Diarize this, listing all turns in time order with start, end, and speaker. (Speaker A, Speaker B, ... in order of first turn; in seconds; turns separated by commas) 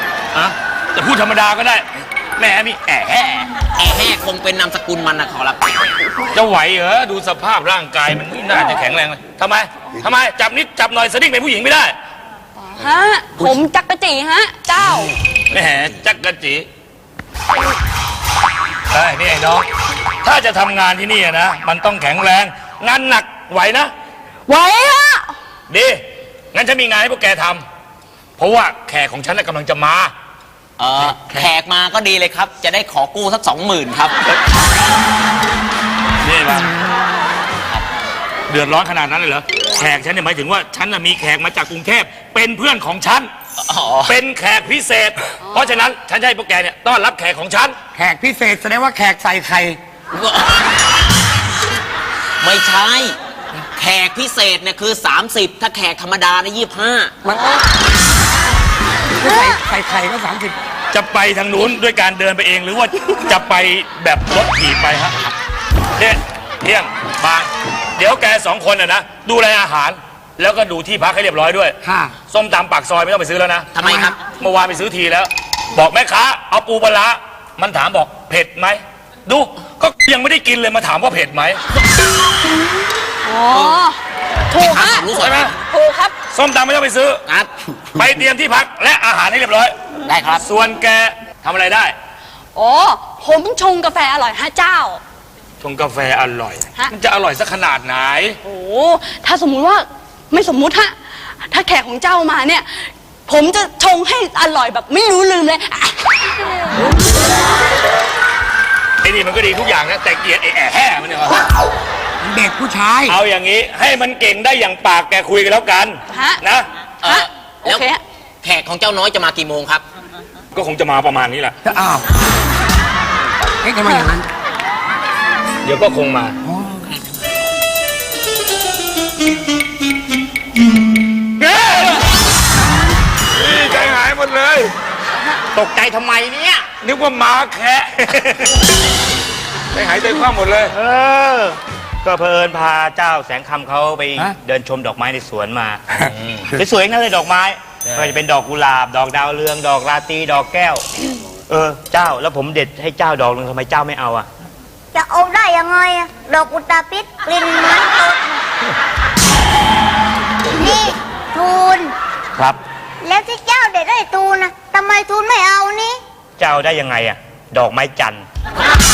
Speaker A: 0.3-3.5, Speaker B: 3.7-5.8, Speaker A: 6.3-12.0, Speaker C: 12.6-15.2, Speaker A: 15.5-16.7, Speaker A: 18.9-19.7, Speaker A: 20.2-23.9, Speaker C: 24.5-25.3, Speaker A: 25.7-27.6, Speaker A: 28.4-30.1, Speaker B: 30.8-34.2, Speaker A: 36.2-36.7, Speaker A: 38.5-43.3, Speaker B: 43.6-44.2, Speaker A: 44.1-47.8, Speaker C: 45.4-45.9, Speaker D: 48.0-49.8, Speaker B: 50.1-50.6, Speaker B: 52.4-53.1, Speaker B: 53.8-57.1, Speaker D: 57.2-57.6, Speaker D: 59.2-60.6, Speaker A: 60.9-65.2, Speaker A: 66.0-71.7, Speaker D: 71.8-72.1, Speaker A: 72.3-73.7, Speaker B: 73.7-74.2, Speaker D: 73.8-74.1, Speaker A: 74.3-81.6, Speaker C: 83.2-85.1, Speaker B: 83.5-83.8, Speaker B: 84.6-85.5, Speaker A: 85.2-85.5, Speaker C: 85.7-86.2, Speaker A: 86.3-87.2, Speaker A: 88.0-89.8, Speaker B: 90.1-90.5, Speaker A: 90.5-92.0, Speaker C: 92.5-95.0, Speaker A: 95.6-98.4, Speaker C: 98.4-106.9, Speaker A: 109.0-111.4, Speaker D: 112.2-113.2, Speaker A: 113.1-116.7, Speaker C: 116.1-116.4, Speaker C: 117.0-118.0, Speaker B: 117.0-117.9, Speaker B: 118.4-119.8, Speaker A: 120.5-121.6, Speaker D: 121.6-122.1, Speaker D: 123.6-124.2, Speaker A: 125.6-126.4, Speaker D: 126.4-127.0, Speaker A: 131.4-132.0, Speaker A: 133.3-134.7, Speaker E: 135.5-136.7, Speaker A: 136.8-137.9, Speaker E: 138.0-138.5, Speaker A: 139.7-140.8, Speaker E: 140.7-145.8, Speaker E: 146.5-150.8, Speaker E: 151.5-154.2, Speaker F: 154.9-158.3, Speaker F: 160.6-161.9, Speaker F: 163.0-166.0, Speaker E: 166.4-168.2